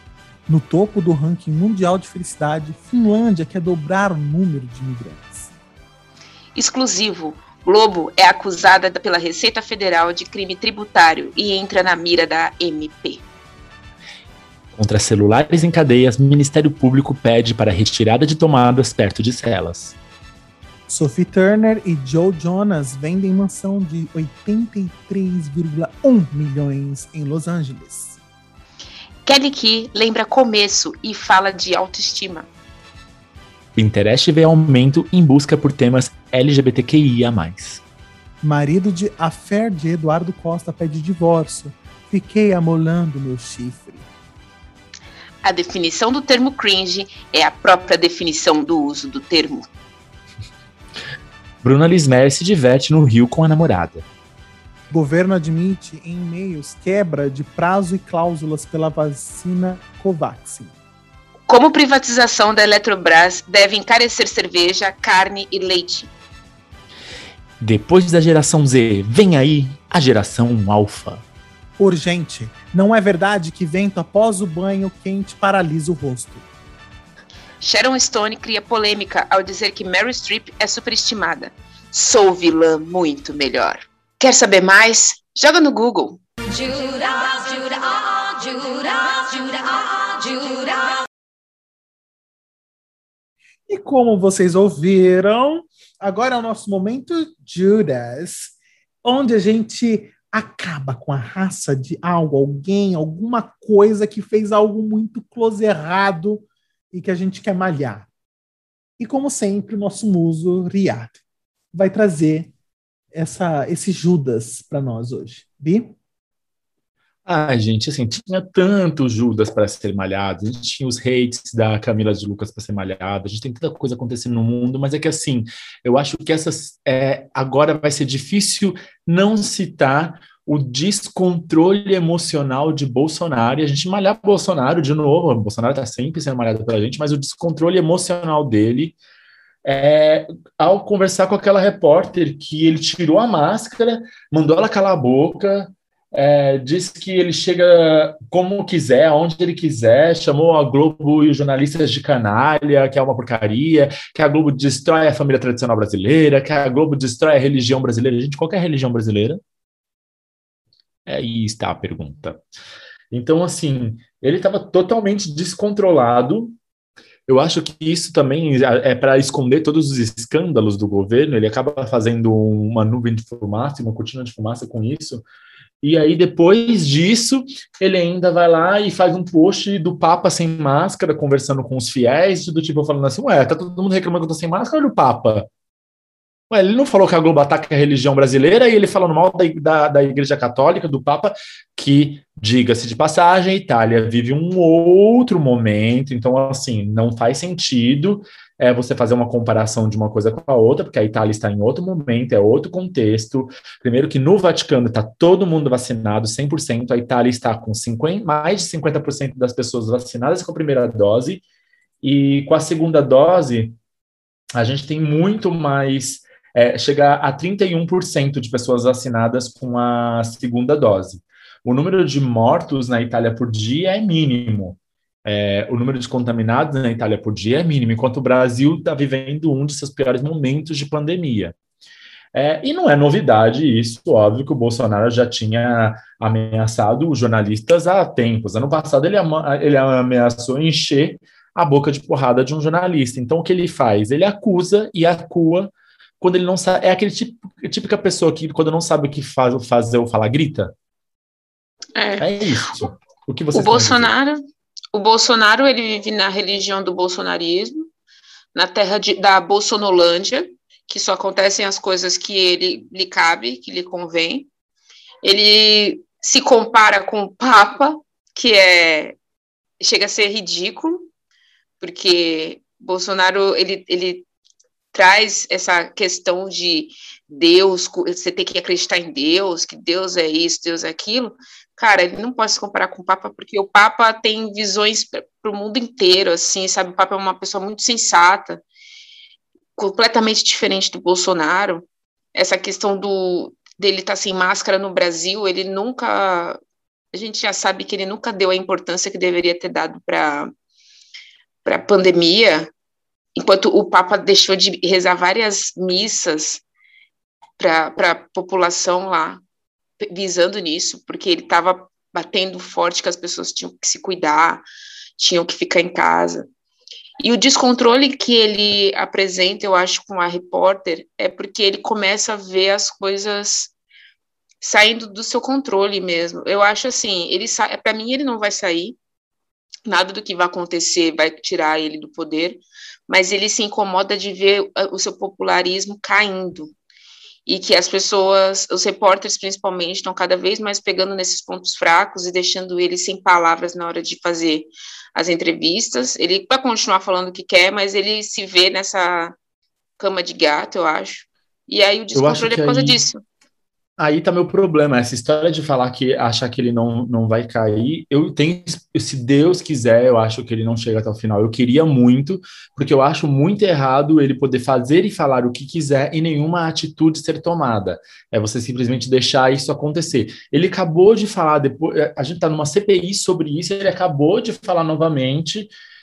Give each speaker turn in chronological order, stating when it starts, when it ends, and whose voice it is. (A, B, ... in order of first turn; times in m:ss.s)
0:00.5-0:05.5 A
0:06.5-0:13.2 B
0:14.7-0:20.0 C
0:20.9-0:28.2 A
0:29.2-0:32.5 B
0:33.8-0:37.8 C
0:38.4-0:44.1 A
0:45.4-0:49.7 B
0:51.6-0:54.0 C
0:54.9-1:00.7 A
1:01.5-1:06.1 B
1:07.6-1:11.2 C
1:11.8-1:16.4 A
1:17.6-1:30.9 B
1:33.7-1:48.1 A
1:49.0-1:51.2 A
1:51.7-1:52.5 A
1:53.1-1:55.9 A
1:57.2-2:19.0 C
2:19.6-2:39.4 C
2:41.0-2:42.4 C
2:43.1-2:46.6 C
2:47.3-2:55.2 C
2:55.8-3:05.5 C
3:06.5-3:31.4 C
3:32.0-3:33.8 C
3:34.5-3:51.6 C
3:52.3-4:10.7 C
4:12.0-4:12.3 B
4:12.2-4:14.1 C
4:13.5-4:14.4 B
4:14.9-4:17.9 B
4:18.5-4:24.5 B
4:25.2-4:29.2 B
4:29.8-4:31.1 B
4:31.8-4:34.2 B
4:34.9-4:48.6 B
4:49.8-4:56.6 B
4:57.1-5:00.5 B
5:01.6-5:02.7 B
5:03.4-5:06.6 B
5:07.6-5:09.4 B
5:10.0-5:14.6 B
5:15.2-5:16.5 B
5:17.2-5:23.7 B
5:24.6-5:29.0 B
5:29.9-5:36.7 B
5:37.4-5:49.4 B
5:50.0-5:53.2 B
5:52.1-5:53.0 C
5:54.0-6:15.7 C